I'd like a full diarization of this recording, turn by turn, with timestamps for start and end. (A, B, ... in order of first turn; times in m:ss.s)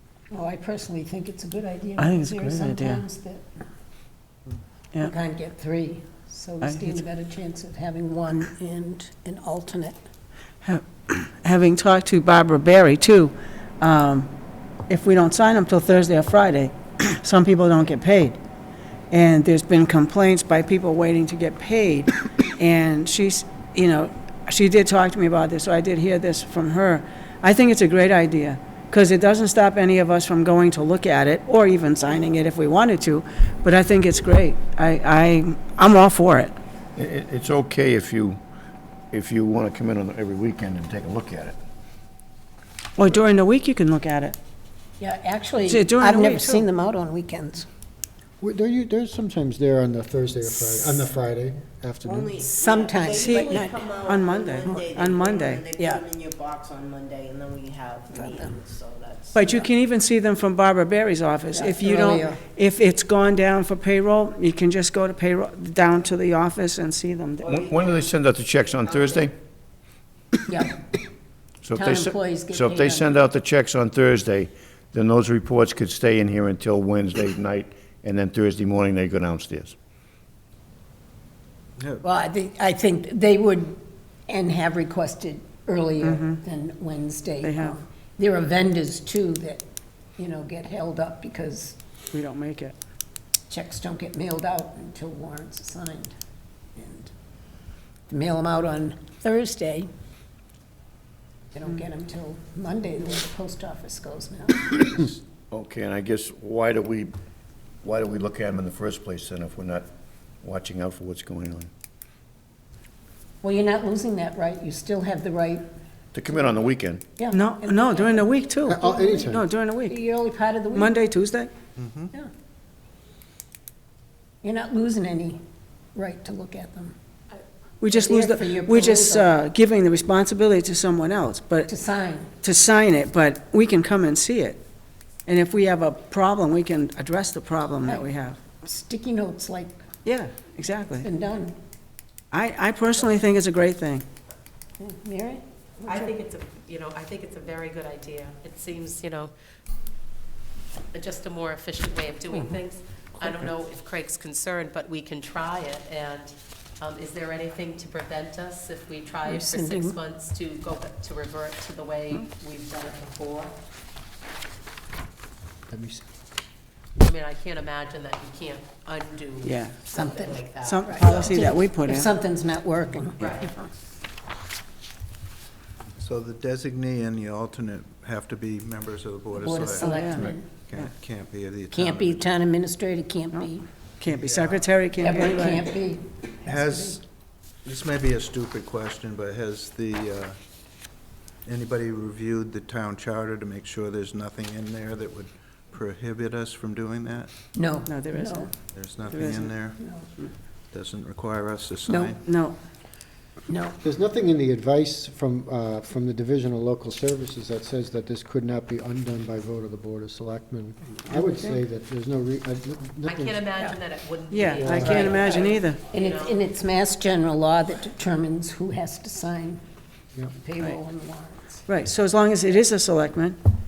0:00.3-0:03.4 A
0:02.0-0:03.0 B
0:05.0-0:10.0 A
0:06.6-0:07.0 B
0:10.6-0:14.3 B
0:14.9-0:18.4 B
0:19.1-0:36.6 B
0:37.0-0:38.4 C
0:39.1-0:41.6 C
0:43.0-0:44.4 B
0:45.0-0:47.6 A
0:45.6-0:46.7 B
0:48.4-0:52.4 D
0:50.7-0:51.0 A
0:52.0-0:59.6 E
0:52.4-0:53.9 A
0:53.2-0:55.9 B
0:54.6-0:54.9 A
0:58.1-0:58.6 A
0:59.3-1:07.5 B
1:01.5-1:02.4 A
1:07.4-1:09.3 C
1:07.5-1:08.0 E
1:10.5-1:10.8 A
1:11.6-1:19.7 C
1:11.7-1:13.1 A
1:21.8-1:22.0 F
1:22.0-1:29.6 A
1:26.0-1:26.4 B
1:27.4-1:27.8 B
1:30.2-1:31.8 A
1:32.1-1:32.8 B
1:33.5-1:36.1 A
1:36.8-1:37.1 A
1:38.1-1:39.9 A
1:41.5-1:45.1 A
1:45.5-1:47.1 C
1:47.8-1:49.9 C
1:50.4-1:51.7 C
1:53.4-1:55.7 A
1:56.1-1:57.0 C
1:57.2-2:01.0 A
1:57.3-2:00.0 B
1:58.6-1:59.4 D
2:00.7-2:01.5 B
2:01.8-2:02.1 F
2:04.4-2:05.4 A
2:05.9-2:06.9 A
2:07.8-2:11.7 B
2:07.8-2:09.3 A
2:11.6-2:12.3 A
2:12.4-2:14.6 B
2:15.3-2:18.4 B
2:17.8-2:18.1 A
2:18.6-2:19.8 A
2:20.0-2:21.1 B
2:21.0-2:21.6 A
2:22.3-2:24.0 B
2:24.8-2:26.1 A
2:25.8-2:29.3 G
2:30.9-2:43.5 G
2:39.2-2:40.0 A
2:45.7-2:46.0 D
2:47.0-2:51.6 G
2:49.4-2:49.9 B
2:49.9-2:53.7 A
2:50.6-2:52.1 B
2:53.2-2:53.5 G
2:56.0-3:02.3 F
2:59.3-3:00.6 A
2:59.8-3:00.9 B
3:01.7-3:03.7 A
3:04.0-3:05.7 B
3:04.1-3:04.8 F
3:05.0-3:07.0 A
3:06.4-3:07.0 F
3:07.6-3:10.4 F
3:11.4-3:17.3 F
3:17.5-3:18.5 A
3:17.8-3:18.5 B
3:18.6-3:19.8 F
3:19.0-3:19.5 B
3:19.8-3:20.1 A
3:20.7-3:22.2 F
3:21.9-3:22.2 A
3:22.2-3:22.6 B
3:23.5-3:23.8 A
3:23.8-3:33.4 D
3:33.0-3:36.4 G
3:34.3-3:35.8 B
3:34.6-3:35.1 D
3:34.8-3:39.6 A
3:40.3-3:41.6 A
3:41.6-3:43.4 B